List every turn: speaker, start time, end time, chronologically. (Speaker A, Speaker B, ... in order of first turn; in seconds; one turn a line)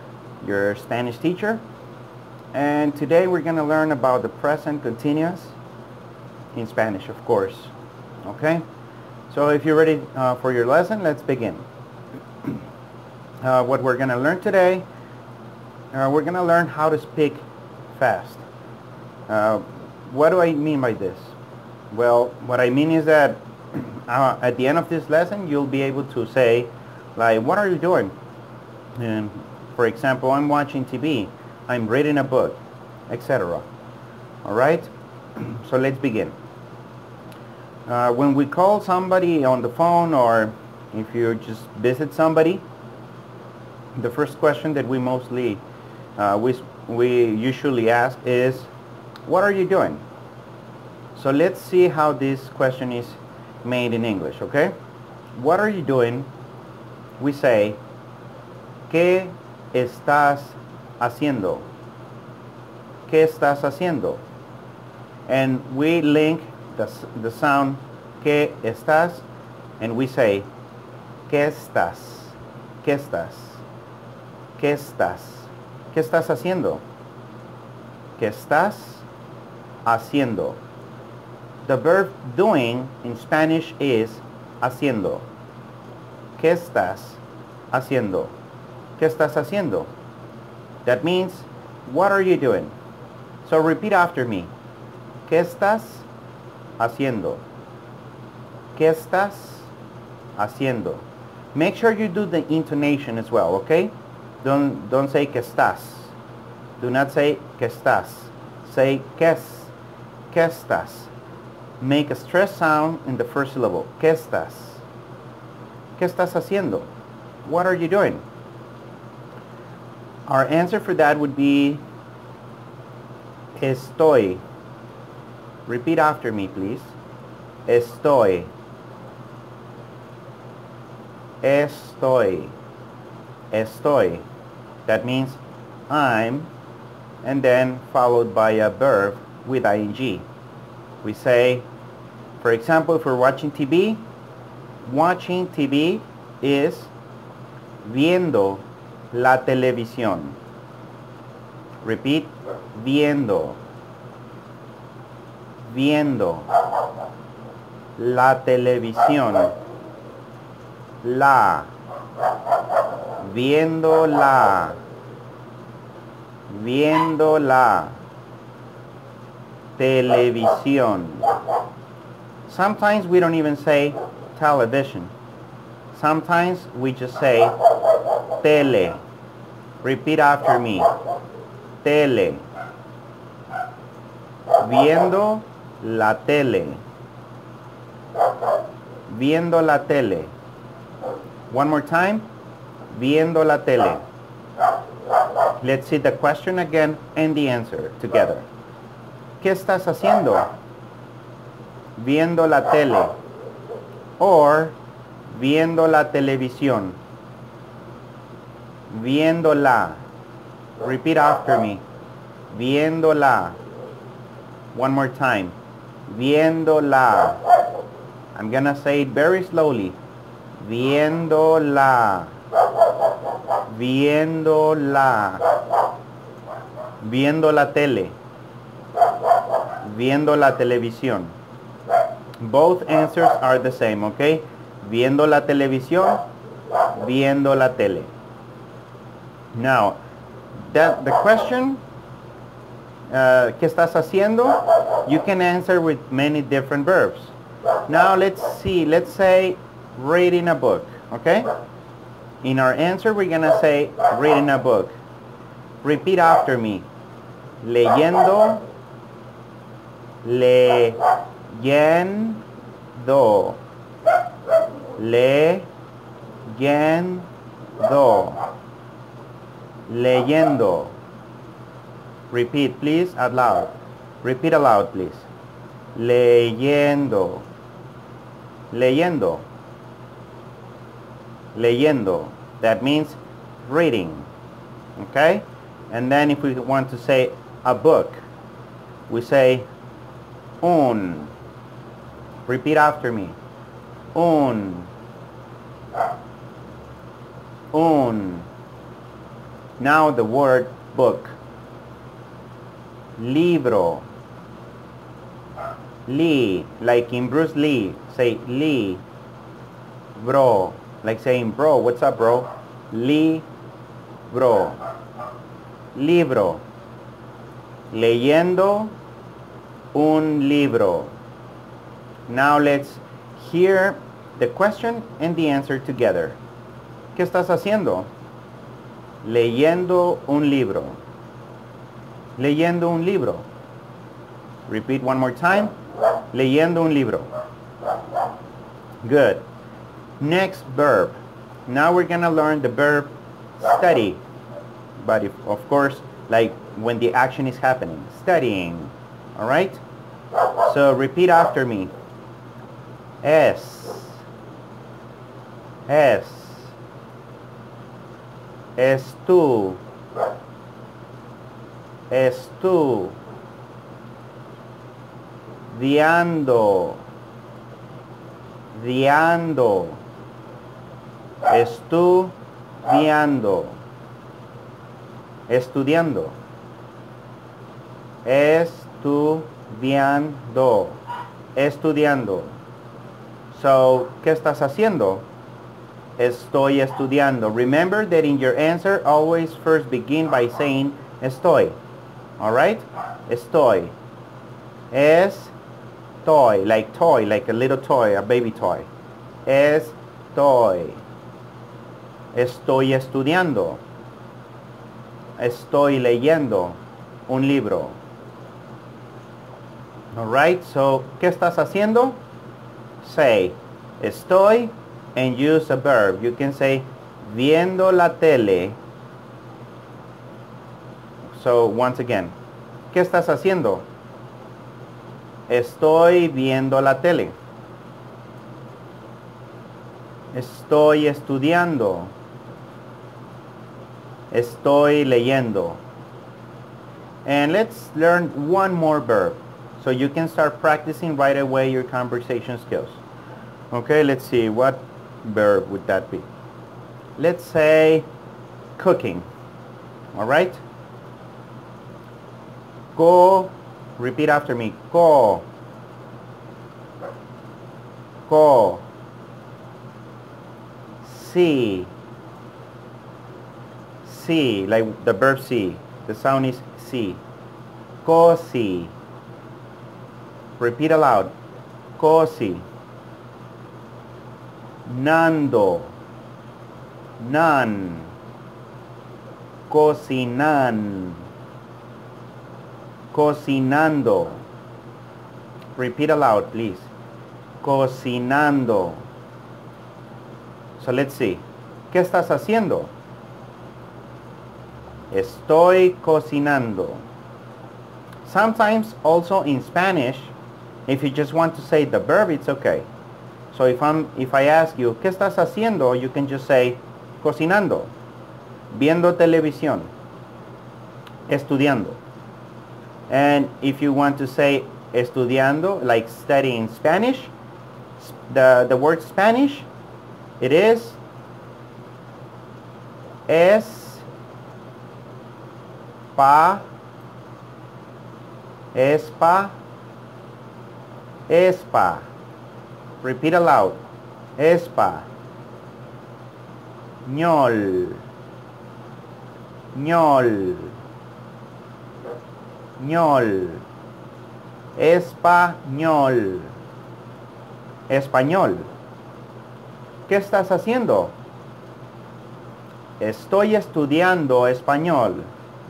Speaker A: 0.4-1.6
Speaker A: 2.5-5.5
Speaker A: 6.5-7.7
Speaker A: 8.2-8.6
Speaker A: 9.3-11.7
Speaker A: 13.4-14.8
Speaker A: 15.9-18.4
Speaker A: 19.3-21.3
Speaker A: 21.9-28.1
Speaker A: 28.9-33.7
Speaker A: 34.4-36.3
Speaker A: 37.9-42.6
Speaker A: 44.0-45.6
Speaker A: 46.2-48.7
Speaker A: 49.2-50.0
Speaker A: 51.1-54.7
Speaker A: 55.3-56.3
Speaker A: 57.2-57.8
Speaker A: 58.9-61.7
Speaker A: 63.1-64.2
Speaker A: 65.3-69.2
Speaker A: 69.8-70.5
Speaker A: 71.3-73.6
Speaker A: 74.6-76.8
Speaker A: 78.2-79.0
Speaker A: 79.8-80.6
Speaker A: 81.6-85.3
Speaker A: 86.4-88.3
Speaker A: 89.0-89.9
Speaker A: 90.8-92.7
Speaker A: 93.4-94.5
Speaker A: 95.2-96.1
Speaker A: 96.8-97.4
Speaker A: 98.7-99.7
Speaker A: 100.3-106.1
Speaker A: 106.8-109.7
Speaker A: 110.3-111.1
Speaker A: 111.8-114.8
Speaker A: 116.0-116.9
Speaker A: 117.4-118.2
Speaker A: 120.3-121.8
Speaker A: 123.5-124.4
Speaker A: 125.7-126.9
Speaker A: 127.7-128.5
Speaker A: 131.4-132.5
Speaker A: 133.5-134.2
Speaker A: 134.8-136.5
Speaker A: 137.2-140.2
Speaker A: 141.0-141.7
Speaker A: 142.4-144.0
Speaker A: 144.8-146.9
Speaker A: 147.8-150.4
Speaker A: 151.8-153.6
Speaker A: 155.6-156.5
Speaker A: 158.0-159.5
Speaker A: 161.0-161.7
Speaker A: 163.2-164.8
Speaker A: 166.5-168.0
Speaker A: 169.8-171.3
Speaker A: 172.5-175.1
Speaker A: 175.9-177.6
Speaker A: 178.4-179.0
Speaker A: 179.8-180.9
Speaker A: 181.8-182.4
Speaker A: 184.6-186.8
Speaker A: 189.1-190.3
Speaker A: 191.5-192.3
Speaker A: 192.9-194.0
Speaker A: 195.6-198.5
Speaker A: 199.4-200.5
Speaker A: 202.0-203.1
Speaker A: 204.2-204.8
Speaker A: 205.3-207.0
Speaker A: 208.9-210.0
Speaker A: 210.8-211.8
Speaker A: 212.5-213.6
Speaker A: 214.7-215.6
Speaker A: 216.1-217.4
Speaker A: 218.3-220.0
Speaker A: 220.6-222.3
Speaker A: 223.7-225.4
Speaker A: 227.0-228.2
Speaker A: 229.8-231.3
Speaker A: 232.4-236.2
Speaker A: 236.9-238.1
Speaker A: 239.5-240.0
Speaker A: 240.6-241.8
Speaker A: 243.1-247.3
Speaker A: 247.9-251.5
Speaker A: 252.4-254.9
Speaker A: 255.8-256.9
Speaker A: 257.6-258.6
Speaker A: 260.2-262.4
Speaker A: 262.9-263.6
Speaker A: 265.0-265.7
Speaker A: 266.4-267.3
Speaker A: 267.8-268.4
Speaker A: 269.9-270.9
Speaker A: 272.3-275.3
Speaker A: 275.9-277.4
Speaker A: 278.7-279.4
Speaker A: 281.5-284.3
Speaker A: 284.9-288.2
Speaker A: 289.1-289.7
Speaker A: 290.6-291.3
Speaker A: 292.5-293.4
Speaker A: 294.1-294.9
Speaker A: 297.7-298.5
Speaker A: 299.8-301.4
Speaker A: 303.2-304.1
Speaker A: 306.1-309.0
Speaker A: 310.1-313.4
Speaker A: 314.3-314.8
Speaker A: 315.9-316.6
Speaker A: 317.9-318.9
Speaker A: 319.9-321.1
Speaker A: 322.3-326.4
Speaker A: 327.1-328.1
Speaker A: 329.2-331.0
Speaker A: 332.4-333.4
Speaker A: 334.7-335.7
Speaker A: 336.3-337.3
Speaker A: 339.0-339.4
Speaker A: 340.2-344.2
Speaker A: 345.0-349.8
Speaker A: 350.6-351.9
Speaker A: 353.2-354.2
Speaker A: 355.9-356.7
Speaker A: 358.8-359.8
Speaker A: 362.1-363.2
Speaker A: 365.7-367.0
Speaker A: 368.7-370.0
Speaker A: 371.5-373.8
Speaker A: 375.5-376.4
Speaker A: 378.2-381.0
Speaker A: 381.5-382.6
Speaker A: 383.5-385.2
Speaker A: 386.2-391.8
Speaker A: 392.4-393.9
Speaker A: 394.9-395.5
Speaker A: 396.2-398.9
Speaker A: 399.4-401.0
Speaker A: 402.3-403.8
Speaker A: 405.4-408.0
Speaker A: 410.1-412.2
Speaker A: 413.0-418.8
Speaker A: 421.3-422.3
Speaker A: 422.9-423.9
Speaker A: 425.5-427.3
Speaker A: 430.3-432.1
Speaker A: 434.3-435.8
Speaker A: 437.2-443.0
Speaker A: 443.7-446.2
Speaker A: 447.2-448.1
Speaker A: 448.8-449.3
Speaker A: 450.1-450.6
Speaker A: 452.9-455.4
Speaker A: 458.3-458.8
Speaker A: 461.0-461.9
Speaker A: 464.0-467.2
Speaker A: 468.0-468.9
Speaker A: 470.6-471.3
Speaker A: 472.0-472.6
Speaker A: 474.8-475.9
Speaker A: 477.2-478.1
Speaker A: 479.7-481.2
Speaker A: 483.1-484.4
Speaker A: 485.8-486.9
Speaker A: 487.6-489.0
Speaker A: 490.8-492.9
Speaker A: 495.1-497.0
Speaker A: 498.2-500.3
Speaker A: 500.9-502.9
Speaker A: 503.5-507.9
Speaker A: 508.7-509.9
Speaker A: 511.3-512.0
Speaker A: 513.1-517.3
Speaker A: 518.0-519.7
Speaker A: 520.4-521.0
Speaker A: 523.3-524.0
Speaker A: 526.1-526.6
Speaker A: 528.7-529.5
Speaker A: 531.3-532.1
Speaker A: 533.0-533.8
Speaker A: 534.4-535.1
Speaker A: 537.0-538.0
Speaker A: 539.7-540.7
Speaker A: 542.8-543.6
Speaker A: 544.7-546.5
Speaker A: 547.9-548.7
Speaker A: 550.1-551.1
Speaker A: 553.0-555.3